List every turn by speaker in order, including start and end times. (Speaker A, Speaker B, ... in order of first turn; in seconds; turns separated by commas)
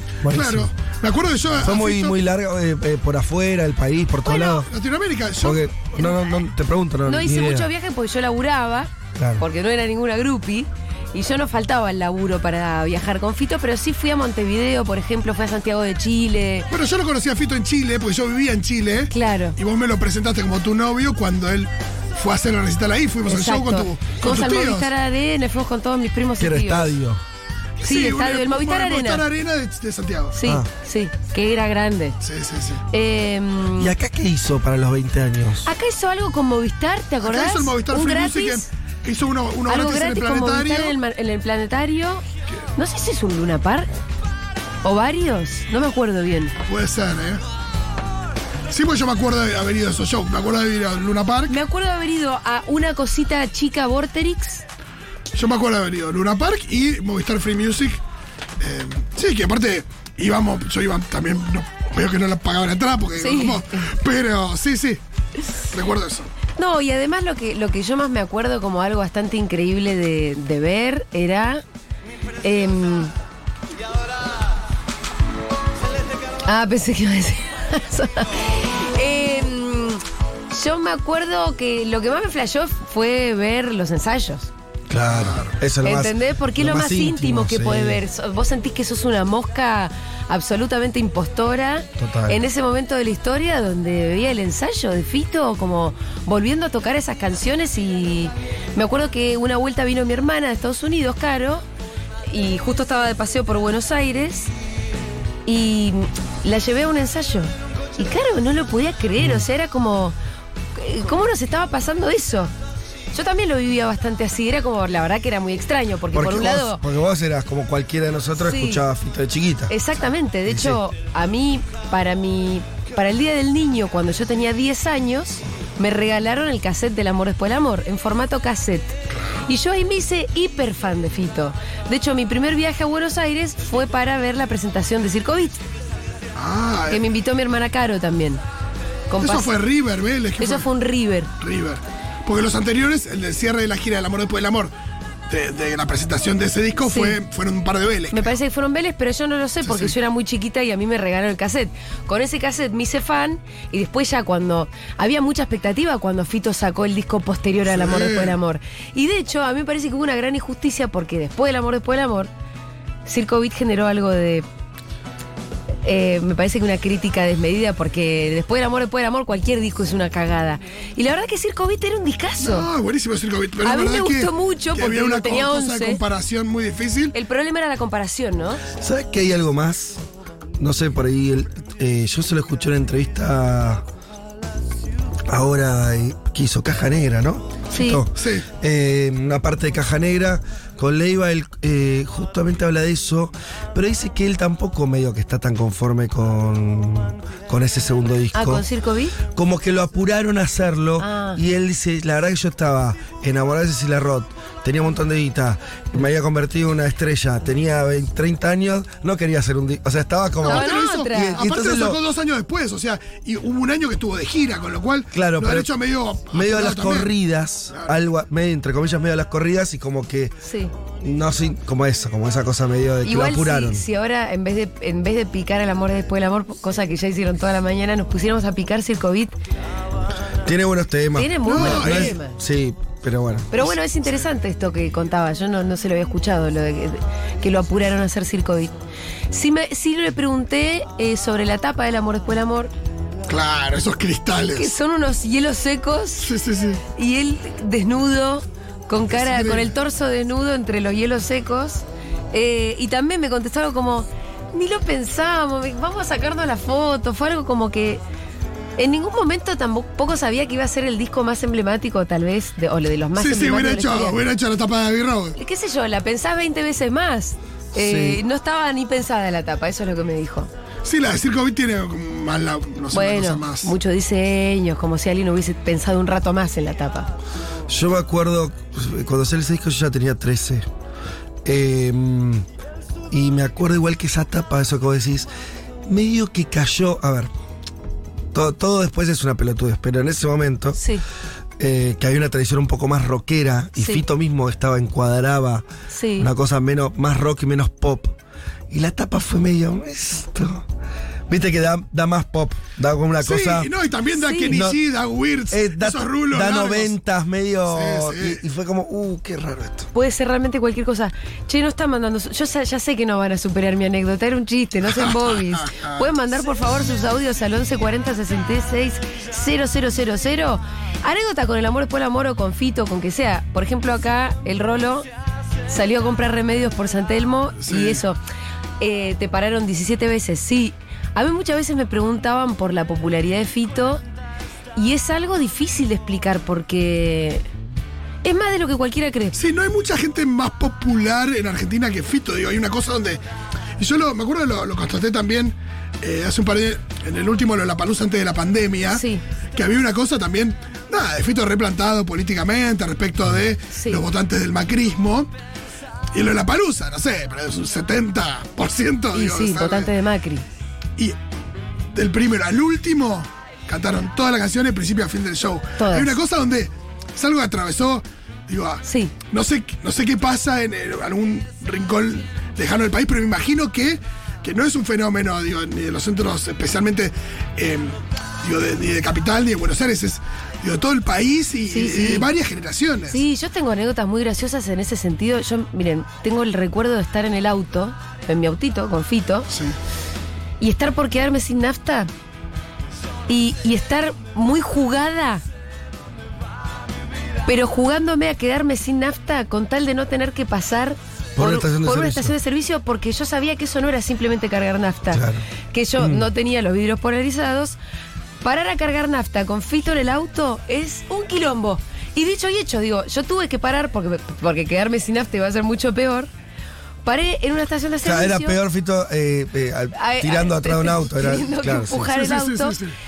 Speaker A: 0.2-0.7, Speaker B: 0.3-2.1, Speaker A: 1.6-4.7, Speaker B: 4.3-5.6, Speaker A: 5.4-7.7, Speaker C: 5.9-6.4, Speaker C: 7.0-16.7, Speaker A: 9.2-9.4, Speaker B: 16.7-24.9, Speaker C: 19.1-19.6, Speaker C: 23.2-26.9, Speaker A: 26.4-27.2, Speaker B: 27.8-30.3, Speaker C: 27.8-29.2, Speaker C: 30.3-32.2, Speaker A: 30.4-30.7, Speaker B: 32.2-32.8, Speaker C: 32.9-33.9, Speaker A: 33.8-35.7, Speaker C: 35.6-38.7, Speaker B: 37.2-41.0, Speaker C: 39.7-42.2, Speaker C: 42.8-43.9, Speaker C: 44.8-46.5, Speaker B: 46.6-47.4, Speaker B: 48.7-51.5, Speaker C: 51.5-54.6, Speaker B: 55.3-58.0, Speaker B: 58.6-65.0, Speaker C: 63.2-63.8, Speaker B: 65.7-66.3, Speaker C: 66.6-71.6, Speaker C: 72.4-73.1, Speaker C: 76.4-84.5, Speaker A: 84.9-88.0, Speaker B: 85.0-85.5, Speaker C: 85.8-101.6, Speaker A: 92.0-92.4, Speaker C: 102.3-104.5, Speaker C: 105.5-110.1, Speaker A: 109.2-109.5, Speaker C: 110.7-112.5, Speaker C: 113.1-116.8, Speaker A: 116.1-119.7, Speaker C: 118.4-118.8, Speaker C: 119.7-135.6, Speaker A: 120.5-120.8, Speaker B: 136.3-137.0, Speaker C: 136.9-138.4, Speaker C: 139.1-139.5, Speaker B: 139.2-140.7, Speaker C: 140.4-141.3, Speaker B: 141.4-144.7, Speaker B: 145.3-148.3, Speaker C: 146.8-147.2, Speaker C: 148.1-162.3, Speaker B: 149.6-149.9, Speaker B: 157.7-158.4, Speaker C: 163.1-164.4, Speaker C: 165.8-172.7, Speaker B: 172.4-177.1, Speaker C: 173.6-176.0, Speaker C: 177.1-178.6, Speaker A: 178.8-180.0, Speaker A: 180.6-183.8, Speaker A: 185.3-198.6, Speaker C: 187.7-188.0, Speaker B: 188.1-188.4, Speaker C: 198.3-199.1, Speaker A: 199.3-212.0, Speaker C: 201.0-201.4, Speaker B: 210.4-217.1, Speaker C: 210.4-211.4, Speaker A: 215.1-215.7, Speaker A: 216.3-220.3, Speaker C: 220.4-220.7, Speaker A: 221.0-223.8, Speaker C: 223.0-229.3, Speaker A: 230.4-233.6, Speaker C: 231.1-232.3, Speaker B: 231.4-232.2, Speaker C: 233.5-238.7, Speaker C: 239.3-242.7, Speaker B: 243.3-244.7, Speaker C: 244.5-246.3, Speaker B: 246.2-246.8, Speaker C: 246.9-258.0, Speaker B: 249.1-249.7, Speaker C: 258.8-264.2, Speaker B: 263.1-265.4, Speaker C: 265.4-270.5, Speaker A: 267.7-268.2, Speaker B: 270.8-273.7, Speaker C: 272.9-277.1, Speaker A: 277.7-280.6, Speaker A: 281.4-282.4, Speaker A: 283.1-285.3, Speaker A: 285.9-287.3, Speaker A: 288.3-290.8, Speaker C: 290.8-291.0, Speaker A: 291.6-295.6, Speaker C: 293.8-294.0, Speaker C: 295.9-296.3, Speaker A: 296.2-298.1, Speaker A: 298.7-300.6, Speaker A: 301.3-303.7, Speaker B: 303.2-306.9, Speaker C: 304.2-304.6, Speaker A: 304.5-304.8, Speaker A: 305.5-309.9, Speaker B: 307.7-308.4, Speaker C: 309.9-325.1, Speaker B: 314.9-316.0, Speaker C: 325.7-328.2, Speaker B: 327.6-328.0, Speaker C: 328.8-334.0, Speaker C: 334.8-337.4, Speaker C: 338.2-339.4, Speaker B: 339.3-343.2, Speaker B: 343.8-349.0, Speaker C: 348.9-349.2, Speaker B: 349.5-355.3, Speaker C: 353.7-354.0, Speaker B: 356.1-359.9, Speaker C: 359.1-360.4, Speaker B: 361.9-383.2, Speaker C: 365.8-366.1, Speaker C: 368.8-369.1, Speaker C: 381.7-382.3, Speaker C: 383.1-389.5, Speaker B: 389.5-389.8, Speaker C: 390.6-392.1, Speaker C: 393.3-395.4, Speaker C: 397.4-407.8, Speaker A: 401.4-402.3, Speaker A: 405.1-405.4, Speaker A: 406.0-406.2, Speaker C: 408.4-416.3, Speaker C: 417.0-418.6, Speaker A: 418.0-422.2, Speaker C: 419.9-422.8, Speaker B: 422.1-422.9